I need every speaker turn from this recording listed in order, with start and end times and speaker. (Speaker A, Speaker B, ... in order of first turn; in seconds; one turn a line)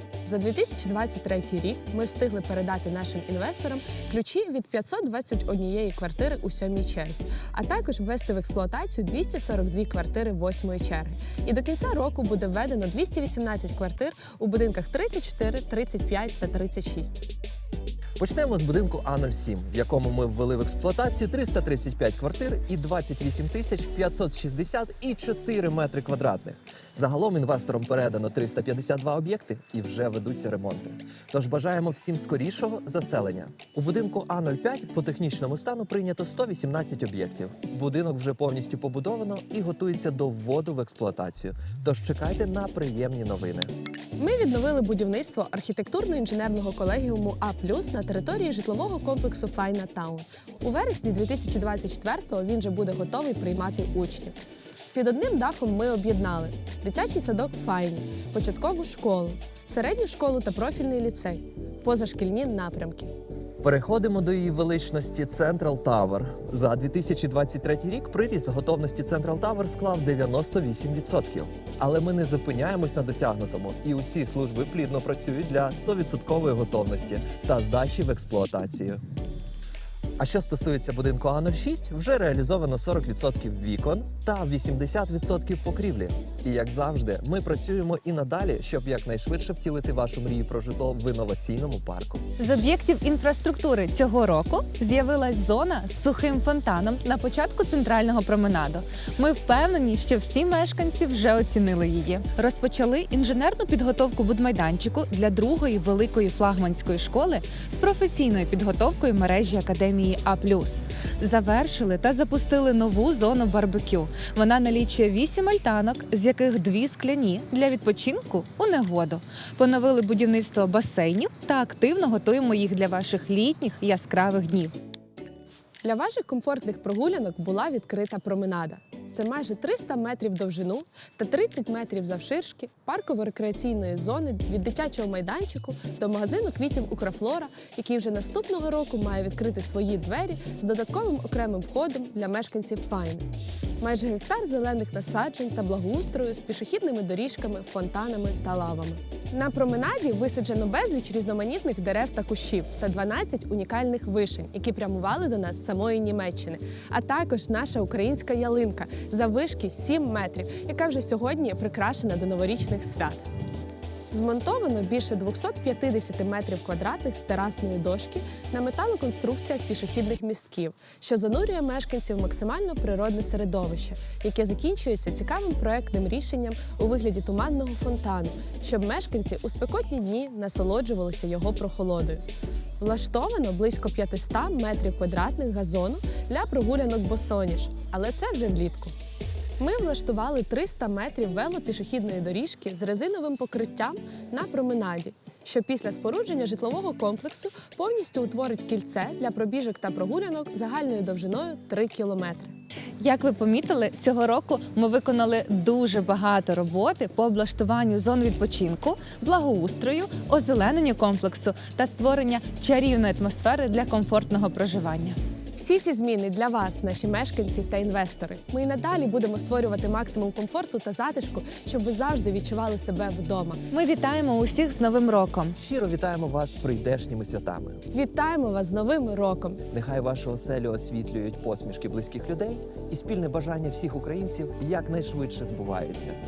Speaker A: 0.2-17.2
Speaker B: 18.2-43.7
Speaker A: 44.2-54.4
Speaker A: 54.9-63.1
Speaker B: 63.6-79.0
Speaker B: 80.2-92.2
Speaker C: 92.4-124.7
Speaker A: 125.8-143.2
Speaker A: 143.8-163.2
Speaker A: 164.1-182.2
Speaker A: 182.8-188.9
Speaker A: 189.6-202.5
Speaker C: 203.0-215.2
Speaker A: 215.6-223.6
Speaker C: 223.7-225.6
Speaker B: 225.6-227.8
Speaker A: 227.9-229.6
Speaker B: 229.7-236.2